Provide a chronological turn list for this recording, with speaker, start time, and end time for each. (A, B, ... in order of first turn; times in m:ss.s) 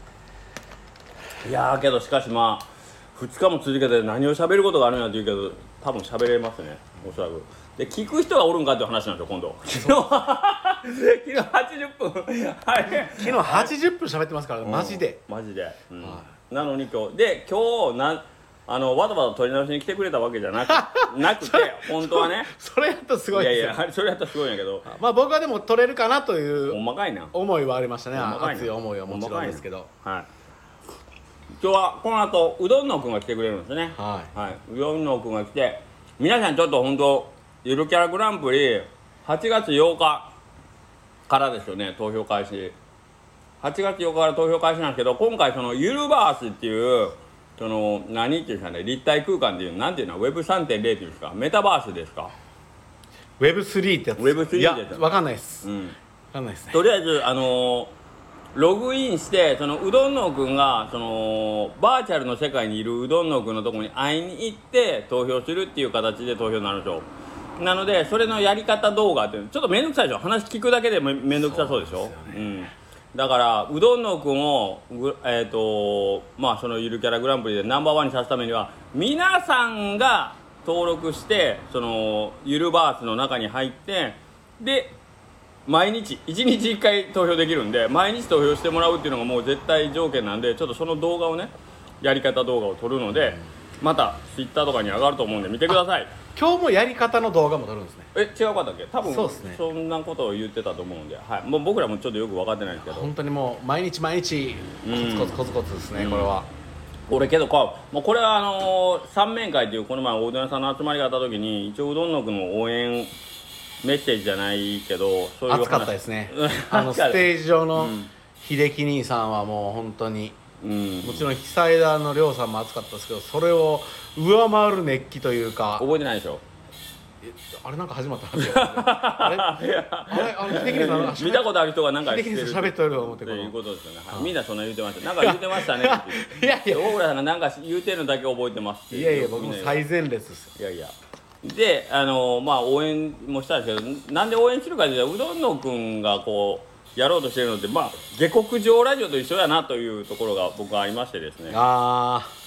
0:01.4-0:13.7 A
0:09.7-0:10.0 B
0:12.9-0:15.2 B
0:14.6-0:22.5 A
0:16.0-0:16.3 B
0:20.7-0:23.8 B
0:23.3-0:24.9 A
0:24.8-0:26.8 B
0:26.7-0:27.3 A
0:27.3-0:29.9 B
0:28.1-0:30.3 A
0:31.6-0:40.3 A
0:34.0-0:34.3 B
0:41.3-0:42.8 A
0:43.6-0:52.3 A
0:53.4-0:55.7 B
0:54.2-0:55.0 A
0:55.6-0:56.0 A
0:56.3-0:56.8 B
0:56.7-0:57.9 A
0:58.5-1:25.0 A
1:11.4-1:12.6 B
1:25.6-1:36.1 A
1:33.2-1:33.4 B
1:36.3-1:38.1 B
1:38.1-1:43.1 A
1:39.0-1:39.6 B
1:42.8-1:46.5 B
1:44.8-1:45.4 A
1:45.9-1:46.3 A
1:47.1-1:53.1 A
1:53.8-1:58.1 A
1:55.5-2:00.4 B
2:00.6-2:01.3 A
2:01.0-2:05.9 B
2:05.8-2:06.4 A
2:07.2-2:13.6 B
2:08.4-2:19.8 A
2:15.2-2:17.0 B
2:18.9-2:20.5 B
2:20.6-2:31.6 A
2:31.5-2:32.3 B